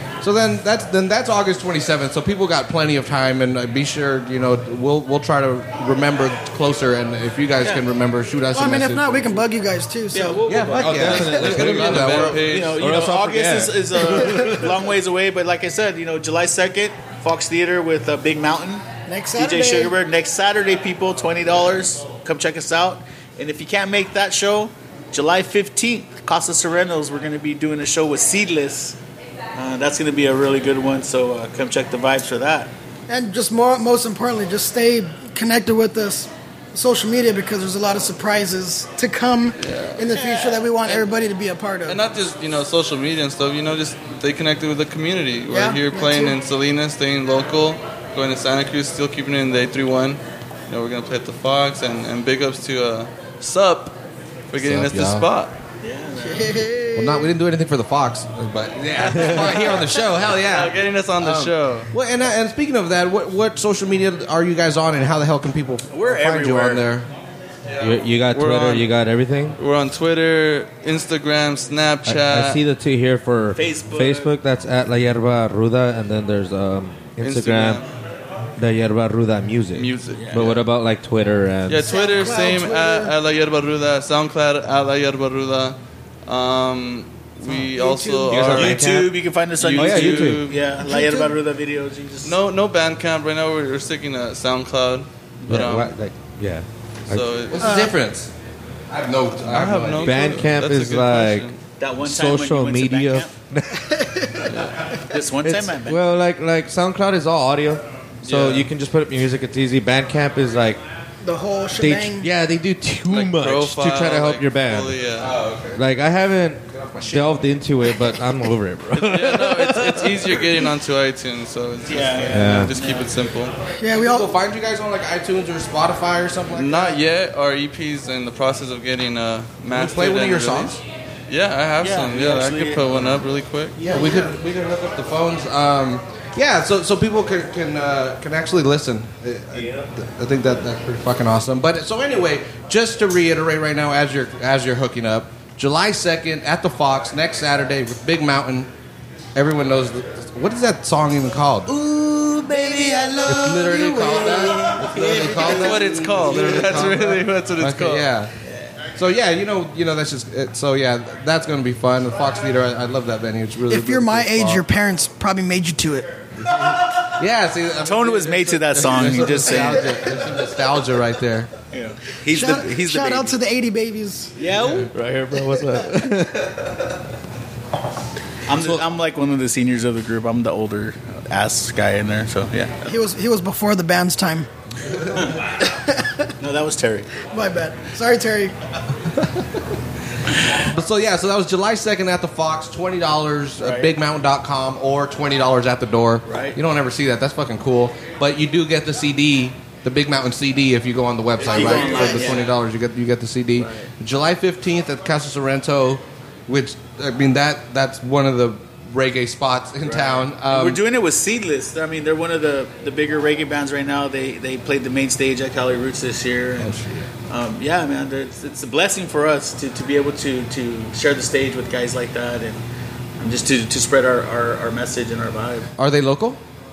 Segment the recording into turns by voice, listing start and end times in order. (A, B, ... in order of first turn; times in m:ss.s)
0:00.2-0:09.4 A
0:07.6-0:07.8 B
0:08.5-0:10.4 C
0:10.1-0:11.3 B
0:10.4-0:12.6 A
0:10.7-0:14.9 D
0:11.0-0:12.8 E
0:12.0-0:29.0 B
0:14.1-0:14.5 C
0:19.1-0:19.9 C
0:29.5-0:32.7 B
0:33.1-0:42.0 C
0:39.6-0:40.2 E
0:40.1-0:41.0 B
0:41.9-0:53.9 E
0:45.5-0:46.4 C
0:54.5-0:55.5 E
0:54.5-0:55.3 A
0:55.8-0:56.6 B
0:56.2-0:57.3 C
0:57.0-1:07.1 A
0:59.1-1:01.9 E
0:59.1-0:59.4 D
1:05.9-1:06.9 B
1:07.7-1:08.9 E
1:07.8-1:09.6 D
1:09.6-1:12.6 E
1:12.0-1:17.8 D
1:13.5-1:14.3 B
1:17.2-1:17.9 E
1:18.6-1:21.9 D
1:19.7-1:20.6 E
1:20.1-1:20.5 B
1:21.7-1:28.8 E
1:21.8-1:23.1 C
1:27.6-1:28.4 C
1:28.3-1:30.4 D
1:28.3-1:32.4 B
1:29.6-1:30.6 E
1:30.7-1:31.4 C
1:32.2-1:35.9 E
1:35.5-1:37.3 D
1:37.1-1:37.8 E
1:37.5-1:38.3 A
1:37.6-1:37.9 C
1:38.9-1:40.4 A
1:39.4-1:41.6 E
1:40.0-1:41.5 D
1:41.8-1:43.3 B
1:42.0-1:44.5 D
1:43.9-1:44.5 C
1:44.5-1:44.7 E
1:45.1-1:46.0 B
1:45.4-1:50.8 D
1:48.2-1:48.5 E
1:51.2-1:52.3 C
1:51.8-1:54.9 D
1:53.1-1:55.4 E
1:55.2-1:55.8 A
1:55.8-2:00.4 D
1:56.7-1:57.6 A
1:58.9-2:03.5 E
2:01.9-2:03.1 B
2:02.3-2:02.7 D
2:03.8-2:04.3 C
2:03.9-2:07.0 A
2:06.5-2:10.8 E
2:09.7-2:10.8 A
2:11.3-2:13.8 E
2:11.8-2:13.2 B
2:13.8-2:28.7 A
2:29.3-2:31.7 A
2:31.7-2:36.7 B
2:33.1-2:38.3 A
2:35.3-2:38.1 E
2:39.0-2:44.6 A
2:43.7-2:46.1 C
2:47.1-2:51.5 A
2:47.8-2:50.0 B
2:51.7-2:53.3 B
2:52.3-2:54.3 C
2:54.4-2:54.9 B
2:54.8-2:56.6 D
2:58.4-3:02.9 B
2:58.6-2:58.8 D
3:02.8-3:04.5 C
3:04.9-3:05.5 B
3:05.6-3:06.3 C
3:06.4-3:07.1 B
3:07.2-3:08.5 C
3:10.5-3:30.8 A
3:13.6-3:13.9 B
3:16.2-3:16.6 B
3:21.4-3:22.5 B
3:23.6-3:23.9 B
3:29.8-3:36.8 B
3:36.6-3:37.1 A
3:37.3-3:42.6 B
3:43.2-3:45.7 B
3:45.8-3:46.4 A